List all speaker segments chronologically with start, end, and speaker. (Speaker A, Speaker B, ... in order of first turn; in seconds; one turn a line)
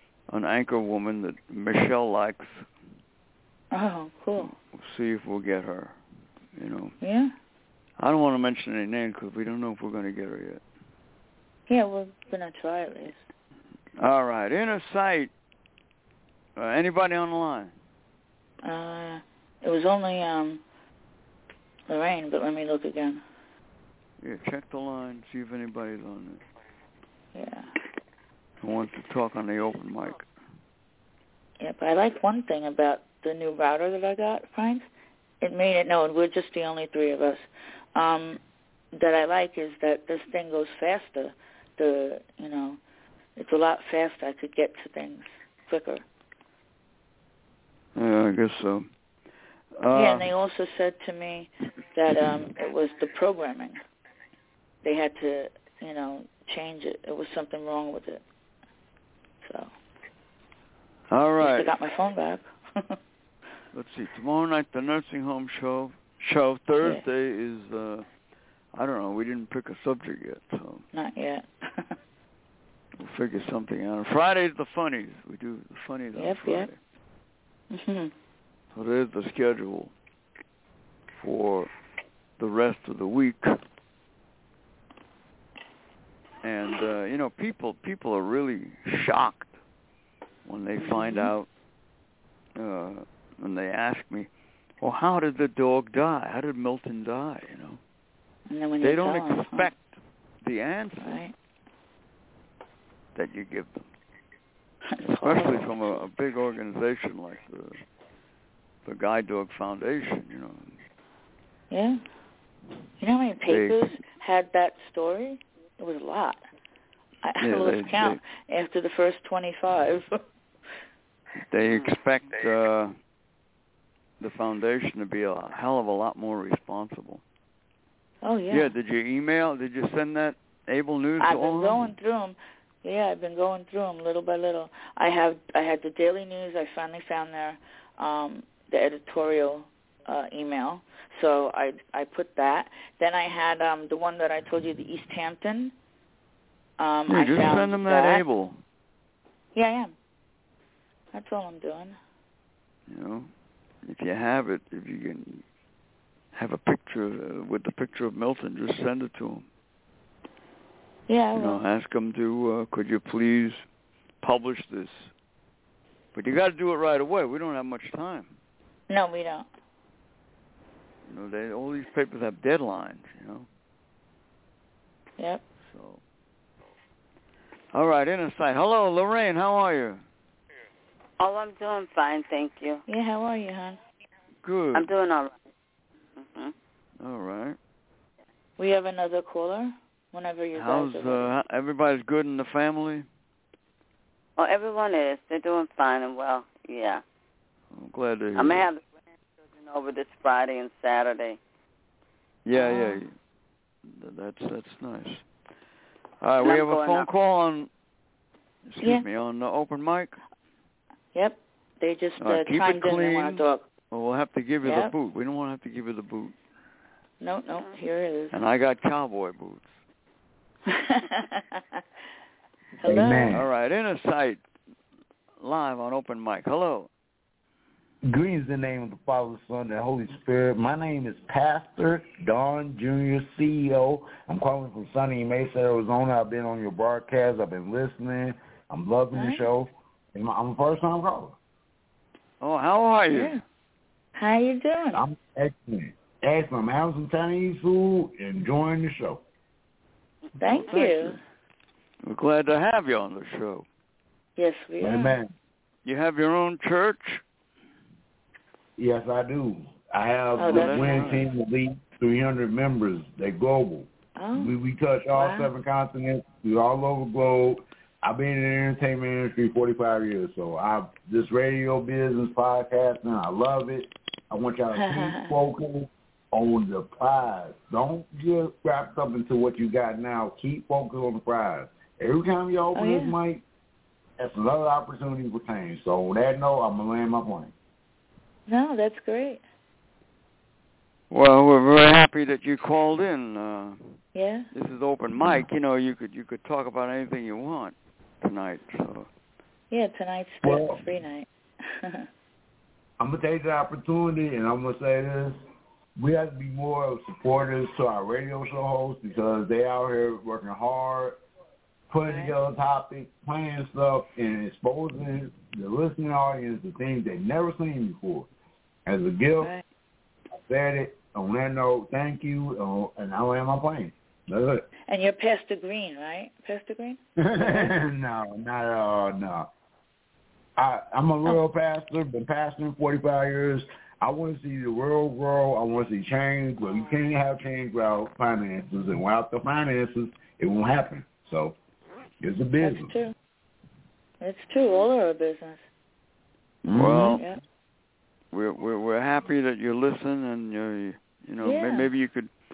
Speaker A: 0.3-2.6
Speaker B: 3.7-4.5
Speaker A: 4.4-6.0
Speaker A: 6.5-6.9
Speaker B: 7.0-7.3
Speaker A: 8.0-10.6
Speaker B: 11.7-13.2
Speaker A: 14.0-15.3
Speaker A: 16.6-17.7
Speaker B: 18.6-20.6
Speaker B: 21.9-23.2
Speaker A: 24.2-26.4
Speaker B: 27.3-27.7
Speaker A: 28.6-30.3
Speaker B: 31.6-34.9
Speaker B: 35.4-38.4
Speaker B: 38.9-42.8
Speaker B: 43.4-46.0
Speaker A: 48.0-48.9
Speaker A: 49.8-50.3
Speaker B: 49.9-53.8
Speaker B: 54.8-58.2
Speaker B: 59.4-59.7
Speaker A: 61.1-61.7
Speaker B: 61.4-63.0
Speaker A: 63.7-68.1
Speaker A: 68.7-70.8
Speaker B: 70.9-71.9
Speaker A: 73.0-76.8
Speaker B: 76.2-76.7
Speaker B: 77.7-78.1
Speaker A: 78.7-79.9
Speaker A: 81.1-81.7
Speaker A: 82.4-83.5
Speaker A: 86.4-89.5
Speaker A: 90.4-91.5
Speaker B: 90.8-91.3
Speaker A: 92.5-94.3
Speaker A: 94.8-97.8
Speaker B: 98.5-99.7
Speaker A: 98.8-101.2
Speaker B: 101.0-101.3
Speaker A: 103.1-103.9
Speaker B: 104.9-106.0
Speaker A: 105.0-107.8
Speaker A: 108.8-110.8
Speaker B: 111.7-112.0
Speaker B: 113.0-116.4
Speaker A: 113.5-114.0
Speaker B: 117.2-120.1
Speaker A: 117.4-118.2
Speaker A: 121.5-122.9
Speaker A: 124.2-127.2
Speaker B: 128.2-128.7
Speaker A: 128.5-131.9
Speaker B: 131.2-145.7
Speaker B: 146.8-148.2
Speaker A: 147.1-148.6
Speaker B: 149.5-149.9
Speaker B: 151.1-152.0
Speaker A: 152.9-153.3
Speaker A: 153.8-155.4
Speaker A: 156.3-159.4
Speaker B: 161.1-161.6
Speaker A: 161.3-163.6
Speaker A: 164.2-165.1
Speaker A: 166.1-168.3
Speaker B: 168.9-169.5
Speaker A: 171.1-173.5
Speaker A: 175.6-176.0
Speaker A: 177.7-180.0
Speaker C: 181.2-182.8
Speaker B: 182.9-183.8
Speaker A: 184.4-184.9
Speaker C: 184.7-185.3
Speaker C: 186.2-186.5
Speaker A: 187.0-187.6
Speaker B: 188.6-191.3
Speaker A: 190.5-193.1
Speaker C: 194.4-197.0
Speaker A: 197.7-198.7
Speaker C: 198.3-198.8
Speaker C: 199.5-201.4
Speaker A: 202.4-203.1
Speaker B: 202.5-203.0
Speaker A: 203.8-205.2
Speaker A: 206.2-207.7
Speaker C: 206.4-207.1
Speaker A: 208.7-210.2
Speaker B: 211.1-213.6
Speaker A: 212.2-216.3
Speaker B: 214.6-214.9
Speaker B: 217.2-218.3
Speaker A: 218.3-219.8
Speaker B: 220.7-221.8
Speaker B: 222.8-223.3
Speaker D: 222.8-223.5
Speaker A: 223.3-224.4
Speaker A: 225.4-226.9
Speaker D: 228.0-241.4
Speaker B: 239.1-239.5
Speaker A: 242.4-243.4
Speaker B: 243.1-243.4
Speaker B: 244.2-245.0
Speaker D: 244.9-249.2
Speaker B: 250.4-251.2
Speaker A: 250.5-251.2
Speaker A: 252.0-253.7
Speaker B: 254.4-255.2
Speaker D: 254.8-255.3
Speaker A: 255.8-257.2
Speaker D: 258.8-283.4
Speaker B: 260.4-261.1
Speaker A: 260.4-261.3
Speaker B: 264.2-264.6
Speaker B: 265.1-265.5
Speaker B: 274.7-275.3
Speaker B: 282.7-283.1
Speaker D: 284.2-287.5
Speaker B: 288.5-289.4
Speaker A: 291.1-294.0
Speaker B: 294.1-294.5
Speaker A: 294.5-299.1
Speaker D: 295.1-295.4
Speaker B: 299.7-302.1
Speaker D: 300.4-300.8
Speaker D: 303.0-305.4
Speaker D: 306.0-311.2
Speaker D: 311.9-318.3
Speaker B: 312.0-312.3
Speaker D: 318.9-319.5
Speaker D: 320.4-324.7
Speaker B: 324.9-327.7
Speaker D: 327.2-329.5
Speaker D: 330.6-341.6
Speaker B: 336.7-336.9
Speaker D: 342.2-342.9
Speaker B: 342.6-343.1
Speaker B: 344.2-345.6
Speaker D: 346.6-347.2
Speaker A: 346.7-347.2
Speaker A: 348.3-352.3
Speaker B: 351.4-351.9